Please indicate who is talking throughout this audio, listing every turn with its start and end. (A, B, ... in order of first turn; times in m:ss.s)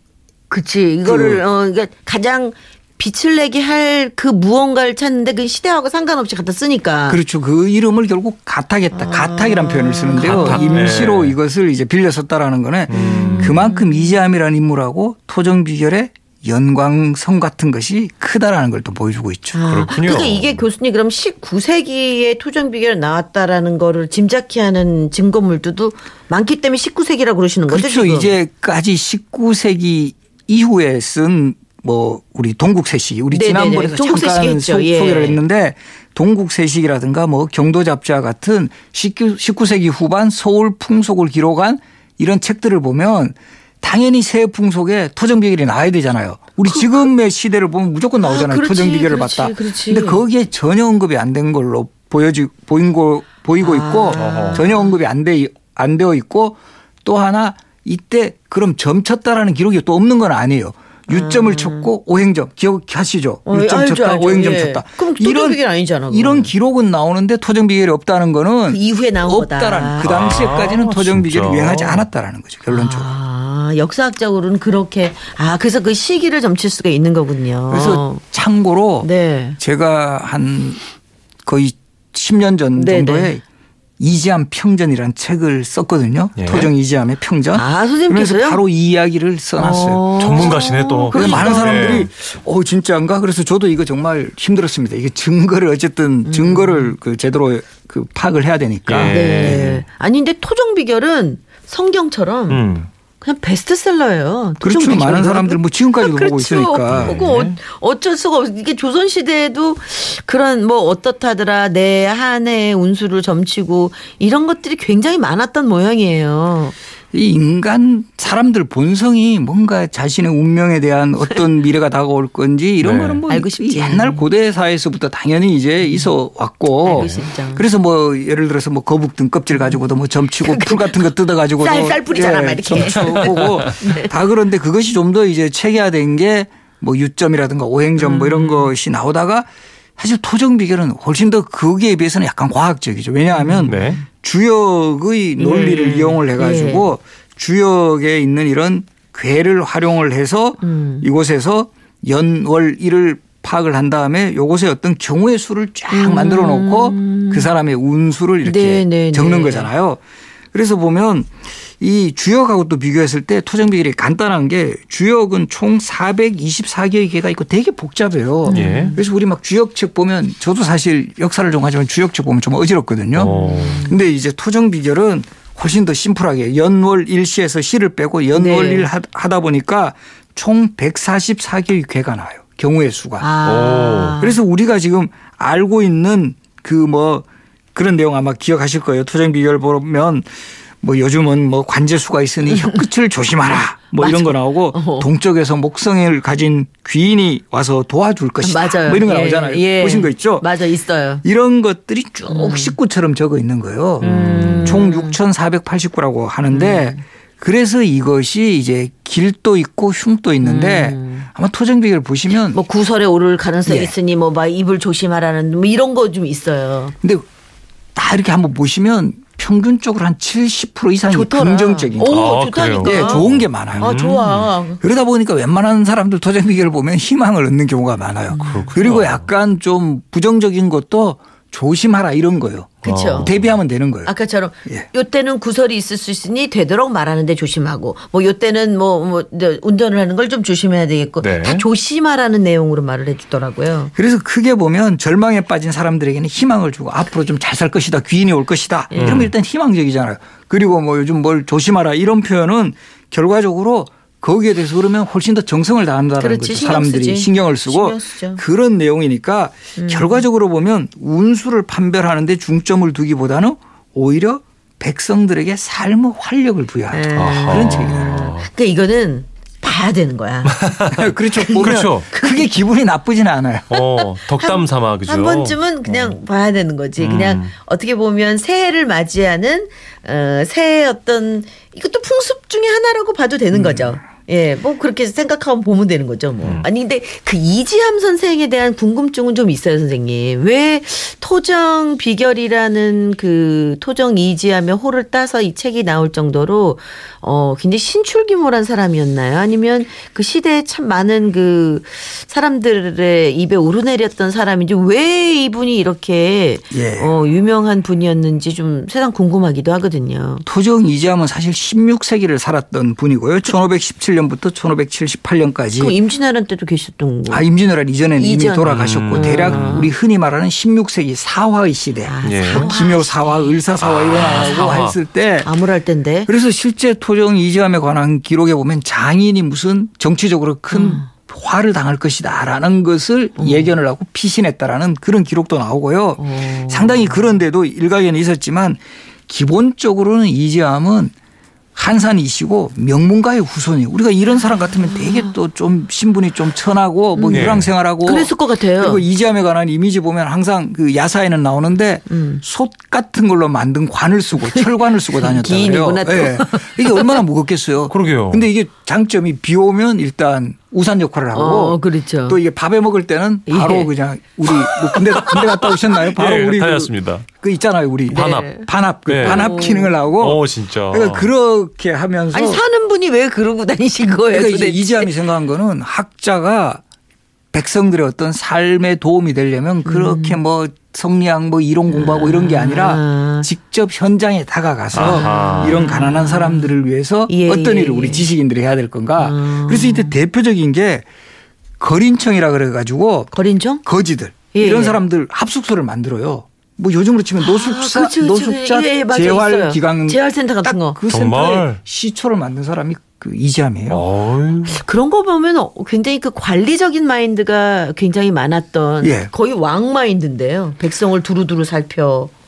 0:00.5-0:07.2 A
0:01.0-0:01.4 B
0:07.1-0:19.6 B
0:08.9-0:11.0 A
0:10.2-0:11.4 C
0:12.9-0:13.6 C
0:12.9-0:14.2 A
0:19.5-0:28.4 A
0:19.6-0:20.6 C
0:27.7-1:13.1 B
0:33.3-0:35.4 A
0:46.6-0:47.1 A
0:48.2-0:50.2 A
0:53.6-0:54.9 A
0:54.2-0:54.6 C
1:01.1-1:01.9 A
1:03.4-1:06.5 A
1:08.7-1:10.4 A
1:10.0-1:12.0 C
1:12.7-1:18.2 A
1:17.7-1:20.8 B
1:19.0-1:19.6 A
1:21.4-1:23.4 B
1:22.8-1:23.4 A
1:24.0-1:30.5 B
1:26.4-1:26.7 C
1:27.5-1:28.6 A
1:29.6-1:32.1 A
1:30.2-1:32.1 C
1:31.1-1:39.6 B
1:36.2-1:37.0 A
1:38.9-1:39.8 C
1:39.0-1:56.7 A
1:42.5-1:42.9 C
1:44.6-1:47.2 B
1:46.9-1:47.6 C
1:57.1-2:40.0 B
2:02.8-2:03.2 C
2:03.3-2:04.3 A
2:05.8-2:06.1 A
2:06.8-2:07.7 A
2:09.5-2:14.1 A
2:18.0-2:18.7 A
2:23.3-2:24.0 A
2:23.7-2:24.0 C
2:25.4-2:27.0 A
2:30.6-2:31.0 A
2:35.9-2:37.5 A
2:38.4-2:39.7 A
2:40.5-3:03.3 B
2:48.4-2:49.0 A
2:48.5-2:49.0 C
2:53.1-2:53.8 C
2:53.2-2:54.0 A
2:58.3-2:58.9 A
3:03.2-3:04.4 A
3:03.4-3:04.2 C
3:04.2-3:10.3 B
3:10.8-3:20.5 B
3:12.5-3:12.8 A
3:14.0-3:15.1 A
3:18.4-3:21.2 A
3:21.2-3:24.1 B
3:22.3-3:22.8 A
3:24.0-3:25.2 A
3:24.0-3:24.8 C
3:24.6-3:32.6 B
3:26.5-3:27.0 A
3:30.4-3:31.3 A
3:32.5-3:36.9 A
3:33.6-3:33.9 B
3:37.9-3:44.2 B
3:41.1-3:44.8 A
3:42.0-3:44.5 C
3:44.8-3:54.1 B
3:48.3-3:48.8 A
3:48.4-3:49.3 C
3:52.8-3:53.3 A
3:52.8-3:53.5 C
3:54.0-4:03.9 A
4:01.2-4:01.6 C
4:03.9-4:28.2 B
4:08.9-4:09.2 A
4:08.9-4:09.3 C
4:16.2-4:18.4 A
4:19.8-4:20.2 A
4:26.9-4:30.6 A
4:27.1-4:28.5 C
4:30.5-4:31.1 C
4:30.9-4:33.7 B
4:31.3-4:32.5 A
4:31.6-4:32.1 C
4:33.7-4:36.2 C
4:33.7-5:10.4 A
4:37.0-4:37.5 C
4:43.5-4:44.0 B
5:06.7-5:07.1 B
5:10.4-5:16.0 B
5:15.8-5:17.4 A
5:17.3-5:25.5 B
5:18.2-5:19.9 A
5:18.6-5:19.9 C
5:22.0-5:23.6 A
5:22.2-5:22.7 C
5:23.8-5:25.0 C
5:24.2-5:24.9 A
5:25.4-5:26.3 A
5:26.3-5:41.1 B
5:30.7-5:31.1 A
5:33.4-5:33.7 A
5:36.2-5:37.4 A
5:41.8-6:12.6 B
5:44.9-5:45.3 A
5:47.2-5:49.0 A
5:47.3-5:47.7 C
5:52.1-5:52.4 A
5:54.4-5:57.2 A
5:57.9-5:58.5 C
6:01.3-6:02.4 A
6:03.5-6:03.9 A
6:04.6-6:05.8 A
6:06.0-6:07.2 C
6:08.1-6:09.6 C
6:08.1-6:08.7 A
6:09.2-6:10.0 A
6:10.2-6:11.3 C
6:12.3-6:15.2 A
6:14.3-6:16.8 B
6:17.5-6:31.0 B
6:19.8-6:20.4 A
6:21.9-6:23.5 A
6:24.9-6:25.9 C
6:25.0-6:28.3 A
6:29.2-6:30.2 A
6:31.8-6:33.3 B
6:33.3-6:33.8 A
6:33.8-6:44.0 B
6:34.5-6:35.0 A
6:37.4-6:41.0 A
6:41.1-6:41.8 C
6:43.9-6:44.8 C
6:44.6-6:52.3 A
6:49.0-6:49.3 B